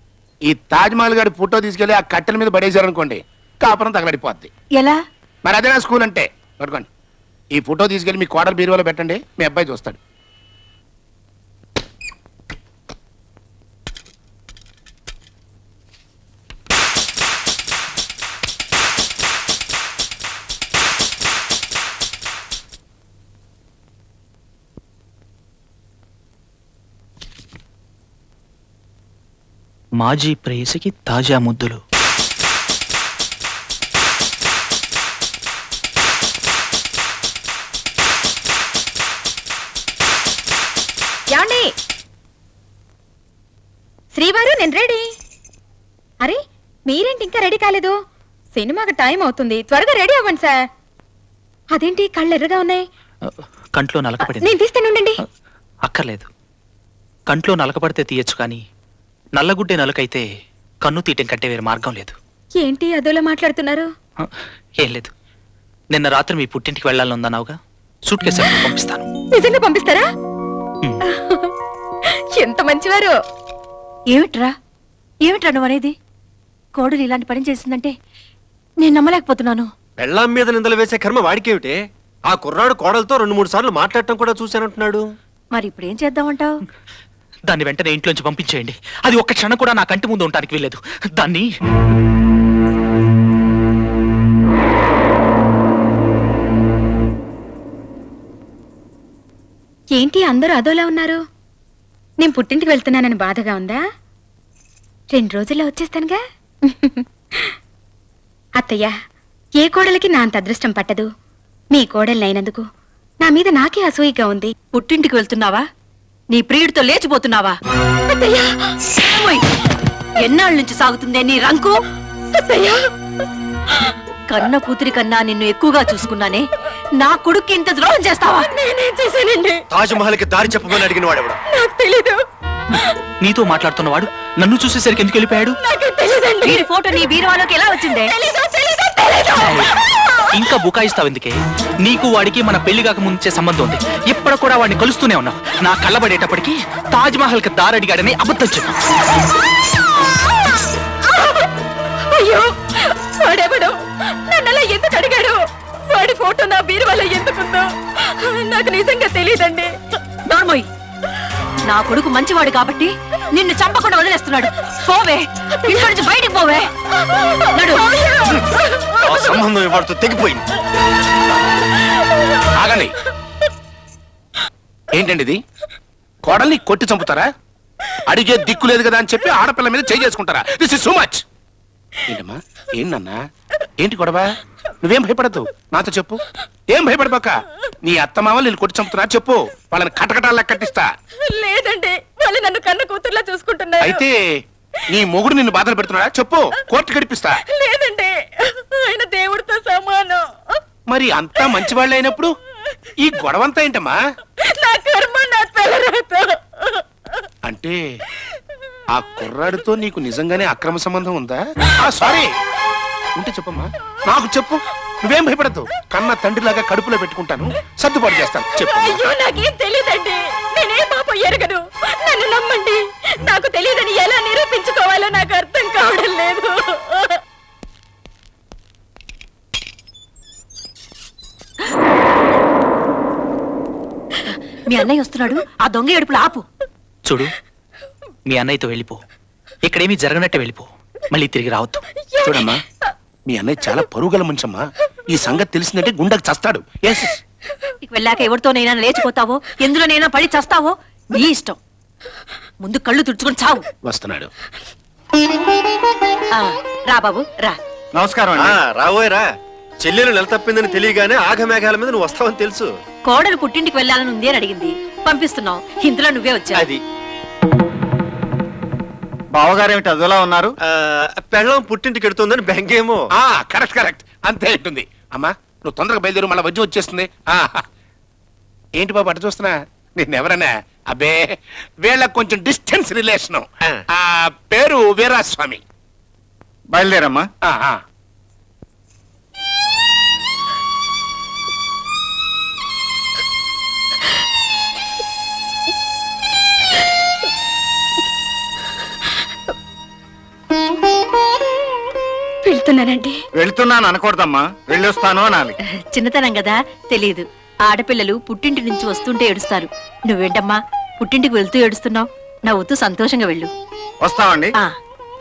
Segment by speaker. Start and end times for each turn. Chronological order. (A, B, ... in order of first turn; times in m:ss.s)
0:00.5-0:04.5 A
0:05.4-0:06.9 A
0:07.5-0:10.0 A
0:30.0-0:31.8 B
0:41.3-0:41.7 C
0:44.1-0:45.0 C
0:46.2-0:48.0 C
0:48.5-0:50.6 C
0:51.7-0:52.8 C
0:53.2-0:54.6 B
0:54.2-0:55.2 C
0:55.8-0:56.3 B
0:57.3-0:58.6 B
0:59.4-1:00.2 B
1:00.8-1:02.2 B
1:02.6-1:03.9 C
1:04.2-1:05.1 B
1:05.9-1:09.1 B
1:09.4-1:10.1 C
1:11.2-1:11.5 C
1:12.4-1:13.2 C
1:14.1-1:14.5 D
1:15.3-1:15.9 D
1:16.8-1:17.9 D
1:18.8-1:19.7 D
1:20.0-1:21.8 E
1:22.3-1:25.0 E
1:25.5-1:26.5 D
1:27.5-1:31.5 B
1:40.0-1:41.2 C
1:42.2-1:43.8 C
1:45.1-1:47.0 C
1:48.6-1:48.9 C
1:49.6-1:51.1 C
1:51.7-1:52.6 C
1:53.2-1:54.5 C
1:54.7-1:55.6 D
1:56.3-1:57.6 D
1:58.1-1:58.6 C
1:59.1-1:59.5 D
2:00.2-2:01.8 D
2:02.4-2:02.8 C
2:04.3-2:06.5 D
2:07.0-2:08.5 D
2:08.5-2:09.6 C
2:09.7-2:11.4 E
2:11.5-2:12.2 C
2:13.2-2:15.6 B
2:15.6-2:16.6 C
2:16.4-2:18.1 D
2:18.2-2:19.4 C
2:19.4-2:19.7 B
2:20.4-2:28.7 B
2:31.2-2:31.5 C
2:32.1-2:33.8 C
2:34.3-2:35.4 C
2:35.9-2:37.7 C
2:38.2-2:39.7 C
2:40.3-2:40.7 D
2:41.7-2:46.7 D
2:47.6-2:48.1 D
2:49.0-2:50.4 E
2:52.6-2:52.9 A
2:54.9-2:55.4 A
2:56.2-2:57.3 A
2:58.1-3:01.2 A
3:02.1-3:03.2 A
3:03.8-3:10.8 A
3:11.3-3:14.0 C
3:13.8-3:14.1 A
3:14.9-3:17.4 A
3:17.6-3:20.2 C
3:20.9-3:22.3 A
3:23.0-3:24.0 A
3:24.6-3:26.5 C
3:27.4-3:27.8 A
3:28.9-3:32.3 A
3:33.2-3:39.0 A
3:38.7-3:47.1 C
3:54.6-3:56.4 D
3:57.1-3:57.3 B
3:58.3-3:59.0 B
3:59.6-4:01.8 B
4:02.2-4:02.6 A
4:03.3-4:07.2 A
4:07.8-4:11.6 D
4:12.6-4:13.7 D
4:13.8-4:14.3 A
4:16.3-4:17.6 D
4:18.0-4:18.6 F
4:18.4-4:19.2 E
4:19.8-4:22.7 E
4:23.1-4:26.6 D
4:26.6-4:26.8 E
4:29.4-4:30.5 F
4:30.6-4:33.0 E
4:33.2-4:37.6 A
4:38.8-4:41.2 A
4:41.8-4:45.6 A
4:46.7-4:47.3 F
4:47.4-4:47.8 A
5:02.5-5:03.2 C
5:03.4-5:05.5 F
5:05.9-5:13.5 D
5:14.0-5:14.5 F